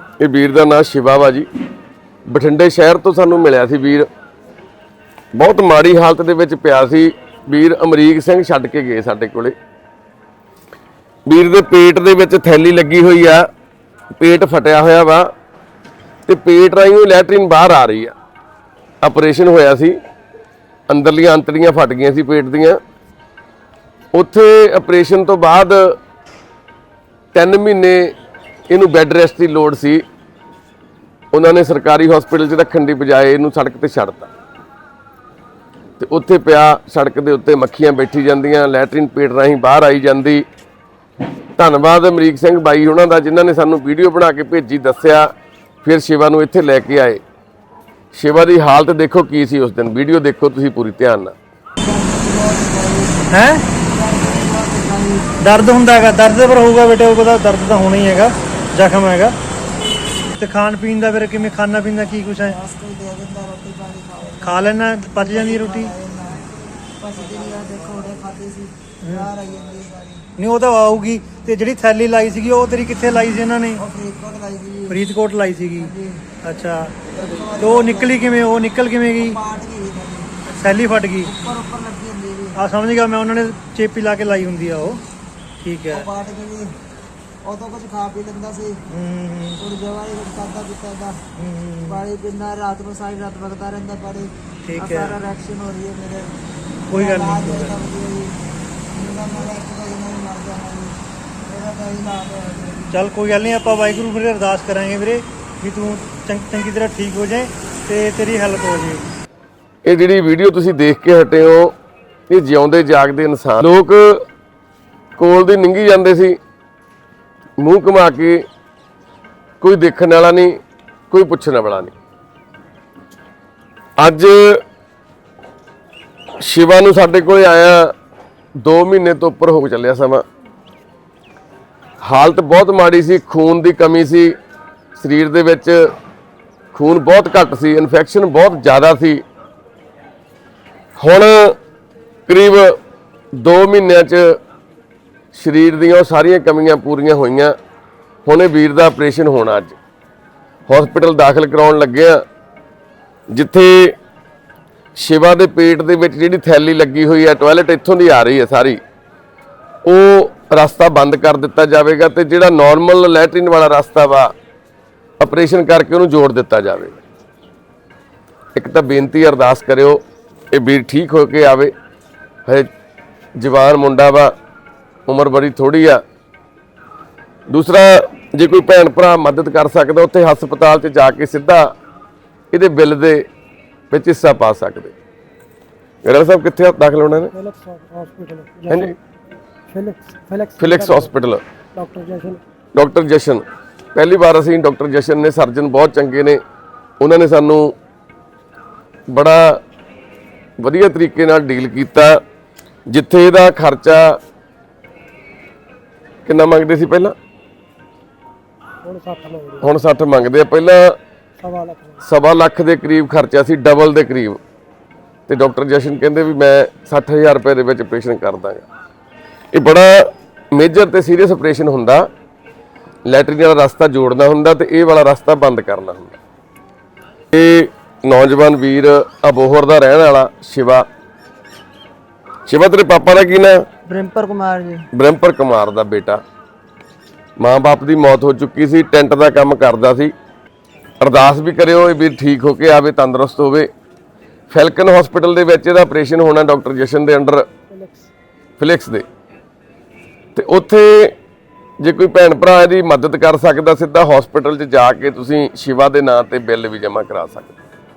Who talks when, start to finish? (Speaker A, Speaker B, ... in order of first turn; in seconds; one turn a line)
Speaker A: 0.2-1.5
Speaker A: 2.3-4.1
Speaker A: 5.3-9.5
Speaker A: 11.3-13.5
Speaker A: 14.2-15.3
Speaker A: 16.2-18.1
Speaker A: 19.0-20.0
Speaker A: 20.9-22.8
Speaker A: 24.1-26.0
Speaker A: 27.3-28.1
Speaker A: 28.7-30.0
Speaker A: 31.3-34.3
Speaker A: 36.0-40.5
Speaker A: 41.6-45.3
Speaker A: 45.8-47.2
Speaker A: 48.1-51.4
Speaker B: 51.8-55.3
Speaker C: 53.3-53.6
Speaker C: 55.4-59.3
Speaker C: 60.3-62.5
Speaker B: 62.4-66.4
Speaker C: 64.4-65.9
Speaker B: 67.0-70.2
Speaker C: 70.4-73.8
Speaker B: 73.8-75.0
Speaker C: 74.9-75.9
Speaker B: 75.7-76.2
Speaker C: 76.4-76.9
Speaker B: 77.1-78.5
Speaker C: 77.6-79.4
Speaker B: 79.1-80.3
Speaker C: 80.6-81.3
Speaker B: 81.2-82.6
Speaker C: 82.5-85.0
Speaker C: 85.6-86.0
Speaker B: 85.9-86.7
Speaker B: 87.4-88.8
Speaker C: 88.9-89.6
Speaker B: 89.6-91.2
Speaker C: 91.4-92.0
Speaker B: 91.8-96.3
Speaker C: 94.7-95.2
Speaker C: 96.9-97.8
Speaker B: 96.9-98.4
Speaker B: 98.9-104.0
Speaker C: 102.9-109.0
Speaker A: 109.8-111.7
Speaker A: 112.3-114.2
Speaker A: 115.2-116.4
Speaker A: 117.6-118.4
Speaker A: 119.6-120.6
Speaker A: 121.1-121.9
Speaker A: 124.0-124.6
Speaker A: 126.4-127.9
Speaker A: 128.6-130.2
Speaker A: 132.0-134.3
Speaker A: 134.9-135.9
Speaker A: 136.7-139.2
Speaker A: 141.0-141.6
Speaker A: 142.3-142.8
Speaker A: 143.3-144.4
Speaker A: 145.3-147.6
Speaker A: 148.2-149.8
Speaker A: 150.7-152.2
Speaker A: 153.3-153.9
Speaker A: 154.9-158.8
Speaker A: 159.8-164.3
Speaker A: 165.2-167.0
Speaker A: 168.5-171.7
Speaker A: 173.4-174.3
Speaker A: 175.1-176.0
Speaker A: 177.5-181.7
Speaker A: 182.5-183.2
Speaker A: 183.9-184.9
Speaker A: 186.0-187.3
Speaker D: 187.3-189.0
Speaker A: 188.7-188.9
Speaker D: 189.7-191.1
Speaker A: 190.6-191.4
Speaker D: 191.7-192.4
Speaker A: 192.7-196.4
Speaker A: 197.0-197.7
Speaker A: 199.1-199.6
Speaker A: 200.6-202.2
Speaker A: 202.9-204.2
Speaker A: 206.2-207.1
Speaker D: 208.8-209.7
Speaker A: 209.6-211.0
Speaker D: 211.4-212.0
Speaker A: 212.0-214.4
Speaker A: 215.3-218.6
Speaker A: 219.5-222.1
Speaker A: 223.1-226.2
Speaker A: 227.3-230.8
Speaker A: 232.5-233.7
Speaker B: 233.9-234.8
Speaker A: 234.9-236.2
Speaker A: 237.4-240.1
Speaker A: 241.0-243.7
Speaker A: 244.5-247.4
Speaker D: 247.7-248.1
Speaker A: 248.6-249.0
Speaker A: 250.3-251.1
Speaker A: 251.8-257.5